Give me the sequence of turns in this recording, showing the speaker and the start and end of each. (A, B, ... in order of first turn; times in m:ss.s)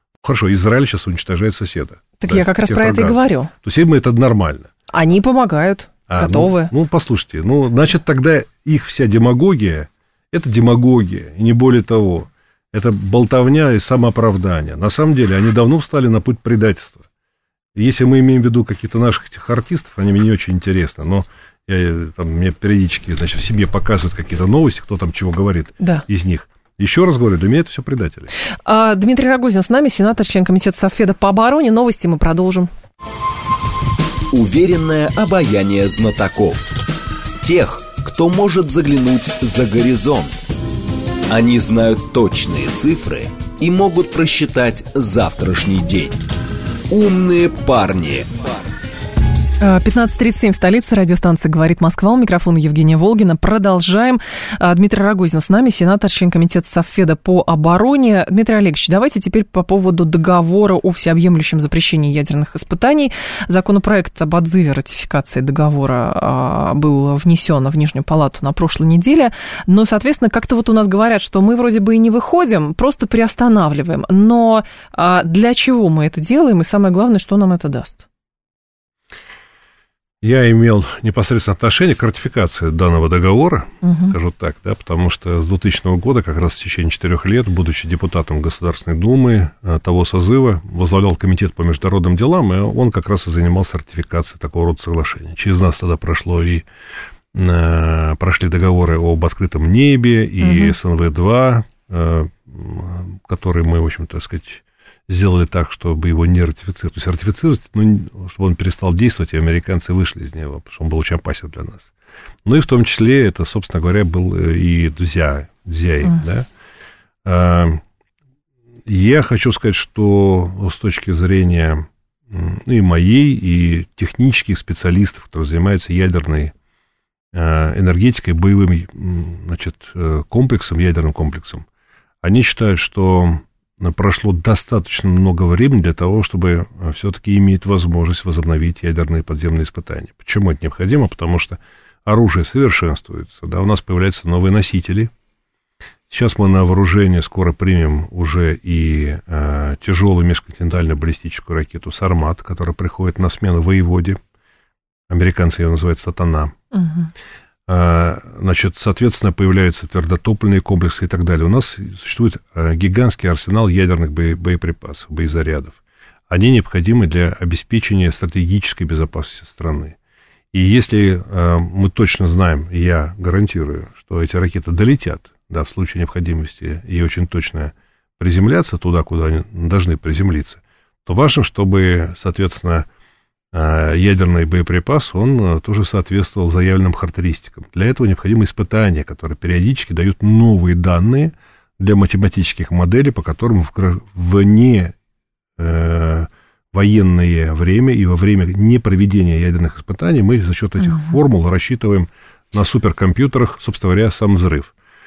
0:00.2-0:04.7 A
0:02.2-0:03.5 B
0:04.9-0:06.7 B
0:06.1-0:17.0 A
0:17.7-0:28.3 A
0:25.8-0:26.0 B
0:28.6-0:32.7 B
0:34.3-0:36.6 C
0:37.4-0:40.3 C
0:41.3-0:46.2 C
0:46.9-0:48.6 C
0:49.6-1:18.0 B
1:20.2-1:36.6 A
1:23.8-1:24.1 B
1:37.3-1:51.9 A
1:40.4-1:40.7 B
1:52.4-1:56.5 A
1:57.2-1:57.8 A
1:58.8-2:06.5 A
2:07.3-2:11.6 A
2:12.2-2:25.1 A
2:26.1-2:34.2 A
2:35.1-2:36.5 A
2:36.7-2:37.1 B
2:37.7-2:50.0 A
2:50.5-3:02.9 A
3:03.5-3:14.9 A
3:15.6-3:24.7 A
3:20.8-3:21.1 B